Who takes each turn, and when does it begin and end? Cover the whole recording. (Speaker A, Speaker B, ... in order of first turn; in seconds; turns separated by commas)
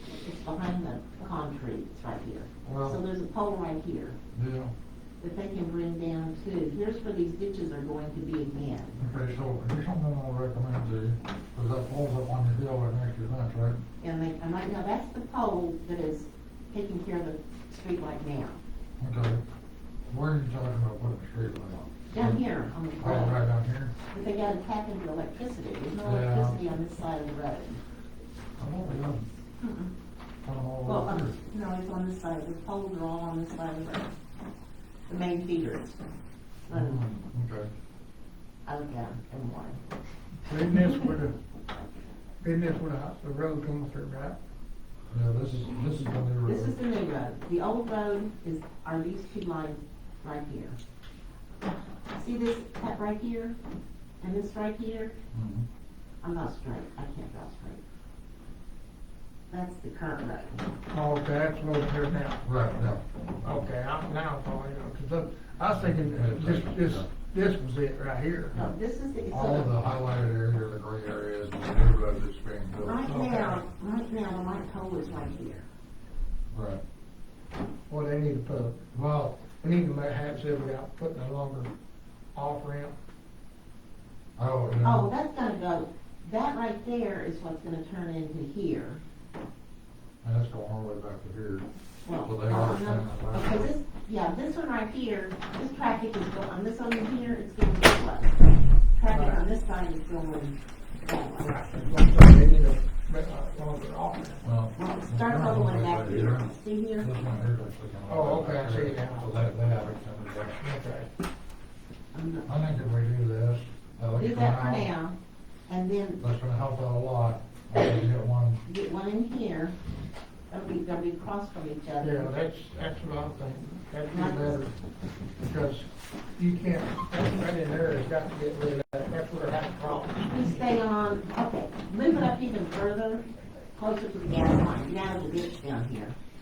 Speaker A: 0.2-4.2, Speaker B: 2.6-3.0, Speaker B: 4.3-4.7, Speaker A: 5.2-9.0, Speaker B: 9.0-13.8, Speaker A: 14.0-18.6, Speaker B: 19.0-19.4, Speaker B: 20.1-22.4, Speaker A: 22.1-23.4, Speaker B: 23.0-23.9, Speaker A: 24.1-27.8, Speaker B: 26.0-26.6, Speaker B: 28.6-29.3, Speaker A: 29.6-29.9, Speaker B: 30.4-31.4, Speaker A: 30.9-34.1, Speaker A: 35.1-36.0, Speaker A: 36.7-37.0, Speaker B: 36.7-37.7, Speaker A: 38.7-39.8, Speaker C: 40.4-41.4, Speaker C: 42.4-44.4, Speaker B: 45.1-46.8, Speaker A: 46.5-50.8, Speaker A: 52.1-53.6, Speaker A: 54.2-55.2, Speaker B: 55.3-55.7, Speaker A: 56.2-57.8, Speaker A: 59.5-60.6, Speaker C: 60.9-62.4, Speaker B: 62.4-63.0, Speaker C: 63.4-68.6, Speaker B: 65.7-67.1, Speaker A: 68.5-69.7, Speaker B: 69.3-73.1, Speaker A: 72.8-75.7, Speaker C: 73.0-73.6, Speaker B: 76.5-76.8, Speaker C: 77.9-78.8, Speaker B: 78.9-79.4, Speaker C: 79.6-81.7, Speaker C: 82.3-82.9, Speaker B: 84.4-85.1, Speaker A: 84.8-89.0, Speaker B: 90.2-91.7, Speaker A: 92.1-98.4, Speaker B: 92.2-93.7, Speaker A: 98.9-101.6, Speaker C: 99.1-99.4, Speaker C: 101.4-104.4, Speaker B: 104.4-110.6, Speaker A: 104.7-107.1, Speaker C: 108.1-109.3, Speaker C: 110.6-111.1, Speaker A: 112.1-112.5, Speaker B: 112.5-114.9, Speaker A: 114.1-115.2, Speaker A: 115.7-116.2, Speaker B: 116.2-118.6, Speaker A: 118.6-119.8, Speaker A: 120.5-122.3, Speaker C: 122.0-124.7, Speaker A: 124.1-124.7, Speaker C: 125.4-130.3, Speaker A: 130.2-136.2